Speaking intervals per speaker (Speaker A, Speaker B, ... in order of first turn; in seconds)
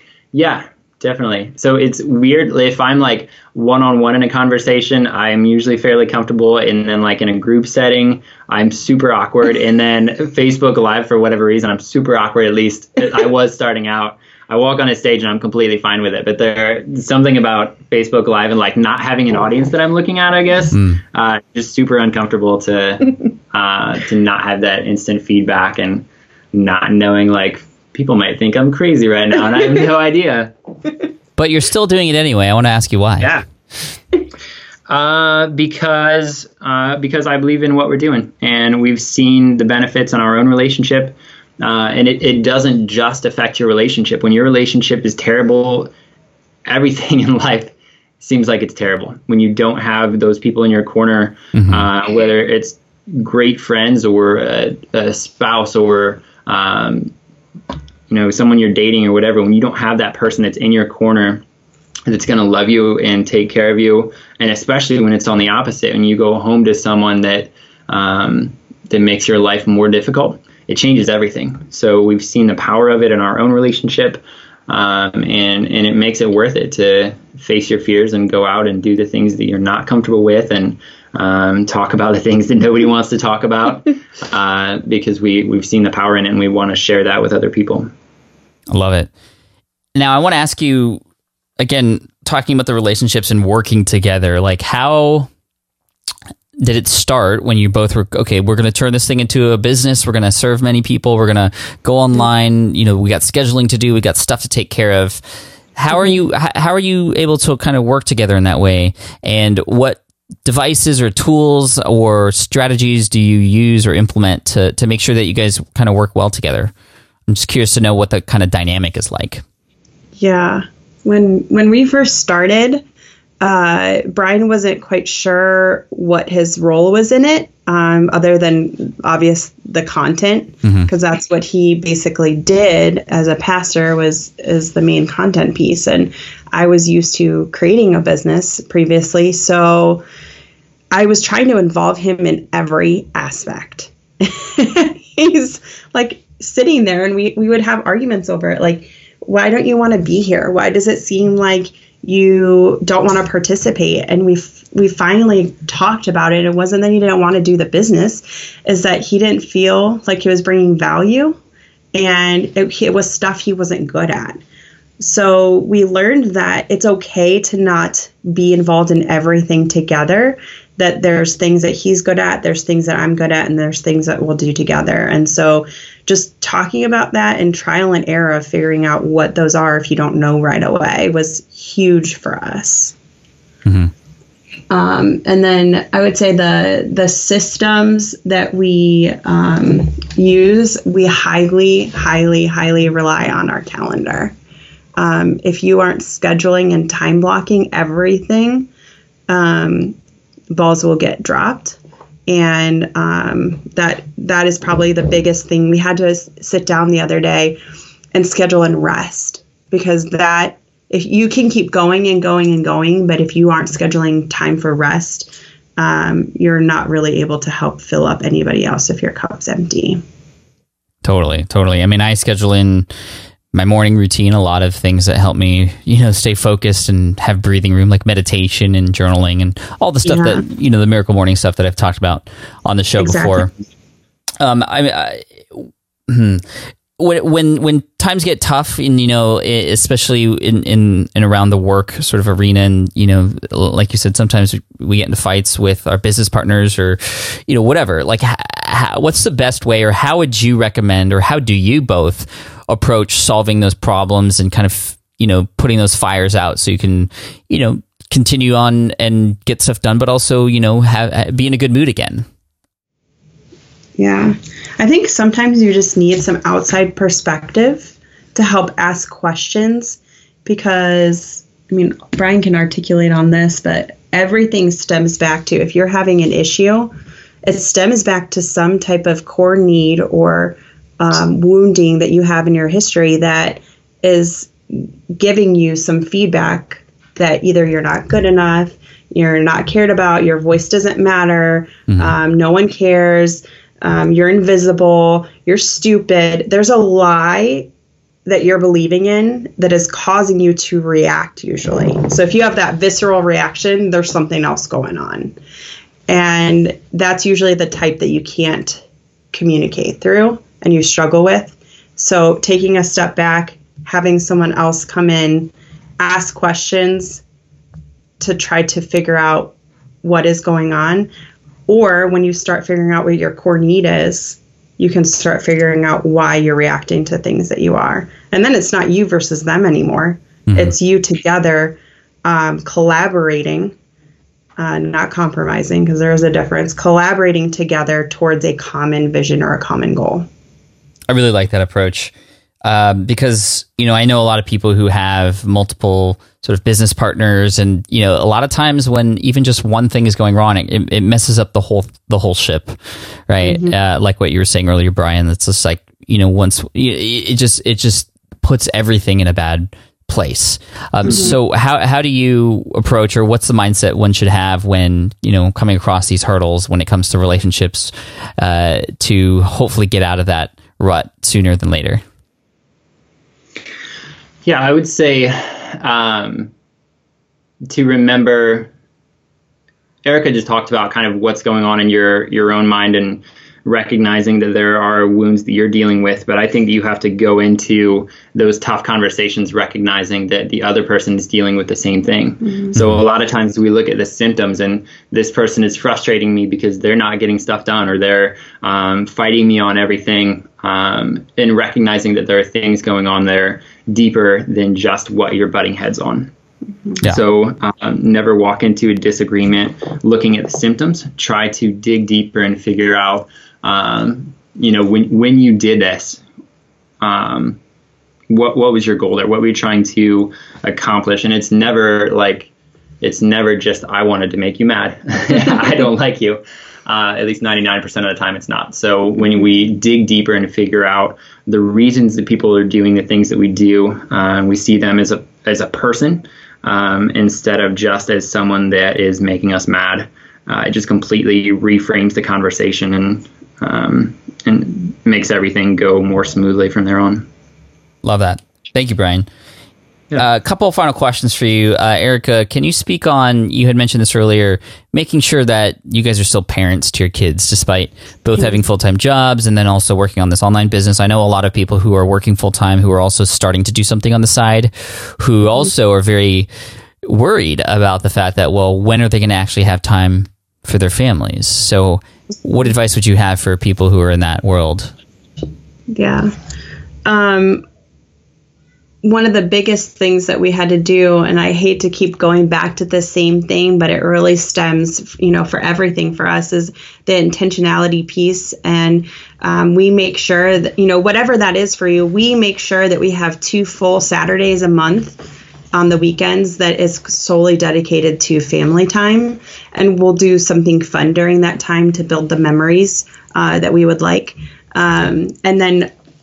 Speaker A: 0.3-30.5, 34.9-45.9, 46.7-57.1, 58.1-61.4, 62.1-87.9, 374.4-376.5, 377.7-378.7, 380.1-406.3, 407.0-416.2, 417.0-417.6, 418.3-422.5, 423.0-447.3
Speaker B: 20.7-21.0, 31.4-33.4, 51.5-51.9, 88.7-89.1, 90.0-91.0, 91.6-95.3, 96.6-105.2, 105.8-116.7, 117.3-119.4, 130.6-130.9, 183.7-183.9, 221.0-222.9, 223.5-233.5, 234.4-262.3, 330.5-330.7, 341.1-342.1, 342.6-352.8, 353.3-372.0, 448.0-449.3, 450.2-466.5, 467.0-474.9
Speaker C: 120.2-122.8, 123.4-140.0, 140.9-161.4, 161.9-164.4, 165.0-182.9, 184.7-194.3, 195.0-198.7, 199.3-200.0, 200.5-207.6, 208.1-220.0, 230.1-230.4, 233.0-233.5, 264.0-276.9, 277.4-297.7, 298.3-305.4, 306.1-317.2, 318.2-321.1, 321.7-333.7, 334.6-340.3, 353.4-353.8, 361.1-361.4, 475.9-476.3, 477.1-477.6, 479.0-505.9